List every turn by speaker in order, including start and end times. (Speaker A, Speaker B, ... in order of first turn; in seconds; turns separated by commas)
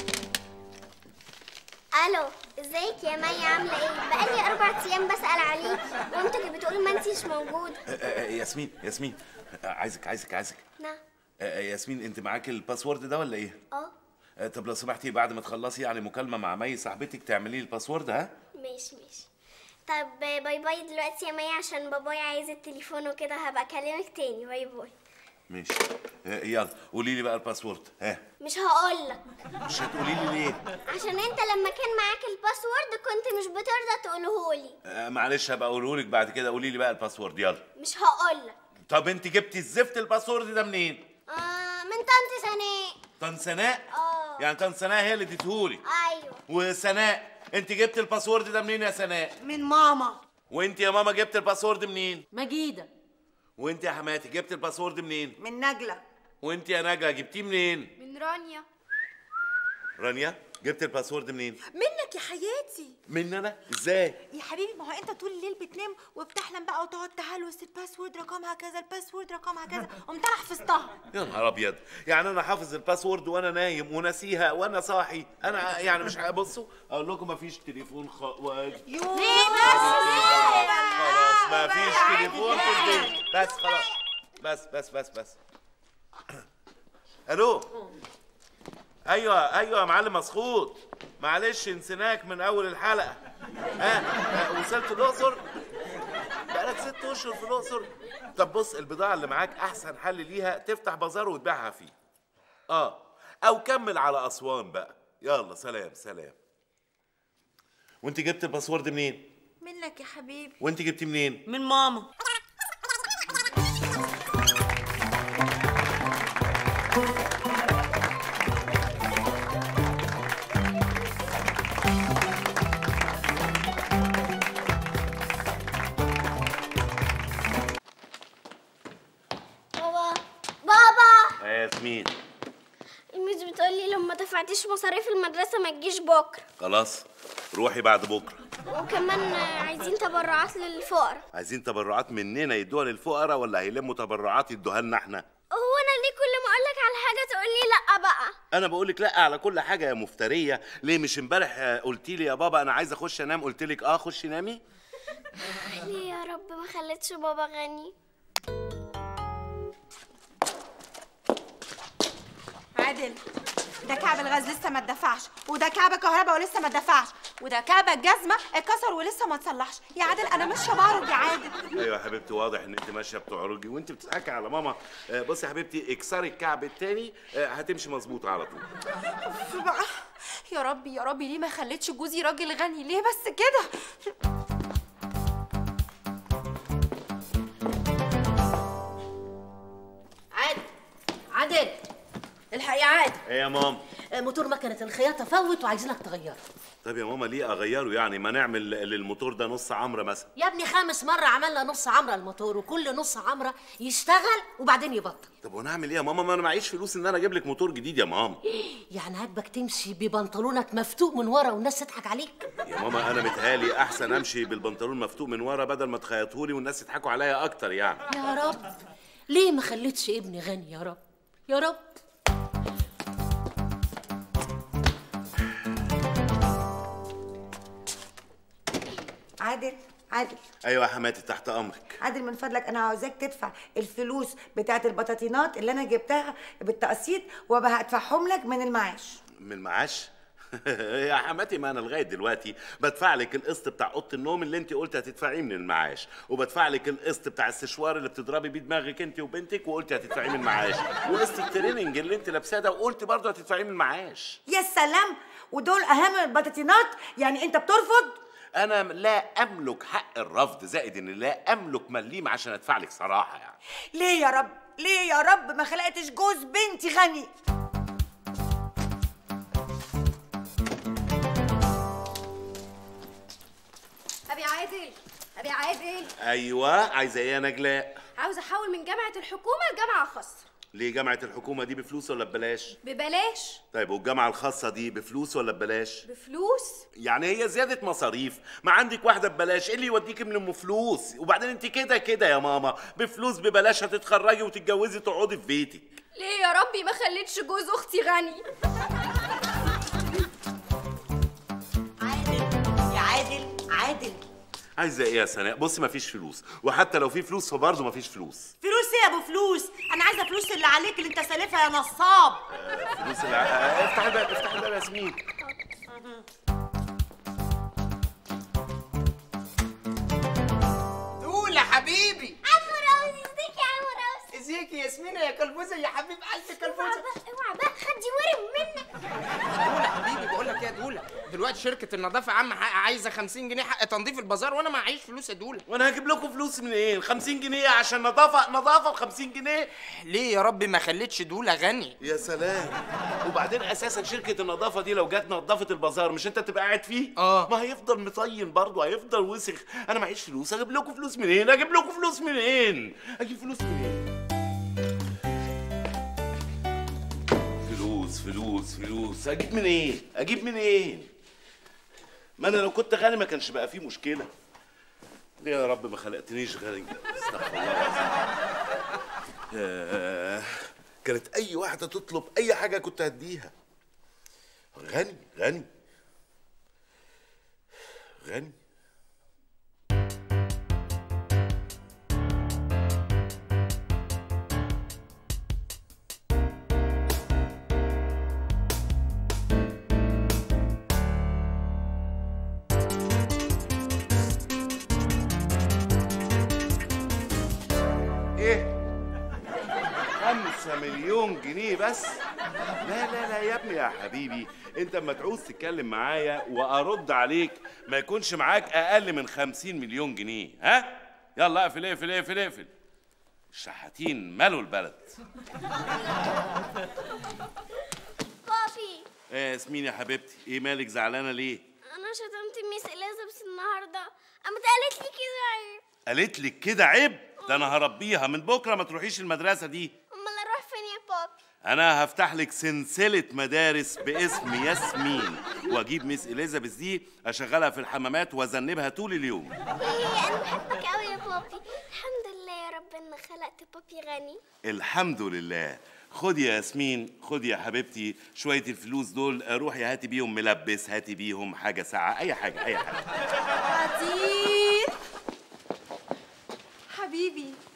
Speaker A: 1.9-7.8, Speaker B: 7.9-10.6, Speaker B: 11.4-13.6, Speaker B: 14.4-18.3, Speaker A: 18.6-19.3, Speaker A: 19.9-24.9, Speaker B: 25.5-28.2, Speaker A: 28.4-29.2, Speaker B: 29.6-30.6, Speaker A: 30.9-34.8, Speaker B: 34.9-37.6, Speaker A: 37.8-38.5, Speaker B: 38.9-41.0, Speaker A: 41.3-43.0, Speaker B: 43.2-43.8, Speaker A: 43.9-44.5, Speaker B: 44.4-45.8, Speaker A: 45.8-46.4, Speaker B: 46.5-49.3, Speaker C: 49.4-50.0, Speaker D: 49.6-50.0, Speaker B: 50.5-52.2, Speaker E: 52.3-52.9, Speaker B: 53.6-55.4, Speaker D: 55.4-56.0, Speaker B: 56.4-57.9, Speaker F: 58.0-58.6, Speaker B: 60.0-61.6, Speaker G: 61.7-62.9, Speaker B: 63.1-64.2, Speaker G: 64.3-70.9, Speaker B: 71.1-78.8, Speaker D: 78.9-83.1, Speaker G: 79.2-82.0, Speaker E: 79.4-80.4, Speaker B: 79.6-83.9, Speaker B: 84.4-85.3, Speaker B: 87.3-87.7, Speaker B: 89.1-93.2, Speaker B: 93.8-95.4, Speaker B: 96.5-101.9, Speaker B: 102.7-106.3, Speaker B: 108.0-109.2, Speaker G: 109.6-110.5, Speaker B: 110.6-111.4, Speaker C: 111.5-112.0, Speaker A: 129.7-131.3, Speaker B: 131.4-132.1, Speaker A: 133.1-136.4, Speaker B: 136.6-138.4, Speaker A: 138.7-141.2, Speaker B: 141.3-145.2, Speaker A: 145.5-148.3, Speaker B: 148.5-154.6, Speaker A: 155.5-157.9, Speaker G: 162.8-163.2, Speaker G: 163.8-171.6, Speaker B: 171.7-178.7, Speaker G: 179.2-184.1, Speaker E: 190.3-190.6, Speaker E: 191.3-191.8, Speaker E: 192.5-193.2, Speaker B: 193.2-193.8, Speaker E: 194.1-196.4, Speaker B: 196.8-200.3, Speaker E: 200.4-205.3, Speaker B: 205.4-208.4, Speaker E: 208.9-212.5, Speaker B: 212.6-218.0, Speaker E: 218.1-218.6, Speaker E: 219.3-221.9, Speaker D: 229.4-230.4, Speaker B: 230.6-232.0, Speaker D: 232.0-239.2, Speaker B: 239.4-254.4, Speaker D: 254.5-258.2, Speaker B: 258.6-263.6, Speaker D: 263.9-267.3, Speaker F: 274.3-276.1, Speaker B: 276.2-278.0, Speaker F: 278.2-280.5, Speaker B: 280.7-282.8, Speaker F: 282.8-283.6, Speaker B: 283.7-286.0, Speaker F: 286.0-286.8, Speaker B: 286.9-295.9, Speaker F: 296.1-298.4, Speaker C: 302.0-304.2, Speaker B: 304.8-308.5, Speaker C: 308.6-312.4, Speaker B: 312.5-315.2, Speaker C: 315.9-316.2, Speaker H: 321.2-322.4, Speaker A: 322.4-324.3, Speaker H: 324.3-327.1, Speaker A: 326.6-328.9, Speaker H: 329.5-335.6, Speaker B: 335.7-339.7, Speaker H: 340.0-341.9, Speaker B: 342.0-354.0, Speaker H: 347.2-347.5, Speaker B: 357.6-361.1, Speaker B: 362.4-364.3, Speaker B: 365.4-368.1, Speaker B: 369.5-373.5, Speaker B: 374.8-375.7, Speaker B: 378.2-378.5, Speaker B: 398.4-398.7, Speaker B: 400.2-402.2, Speaker B: 402.8-412.7, Speaker B: 413.5-415.1, Speaker A: 418.4-419.1, Speaker B: 419.3-421.6, Speaker A: 421.9-425.8, Speaker B: 426.1-429.9, Speaker A: 430.1-431.3, Speaker B: 431.6-439.5, Speaker A: 439.8-444.4, Speaker B: 444.6-453.1, Speaker G: 453.7-454.9, Speaker G: 456.9-457.6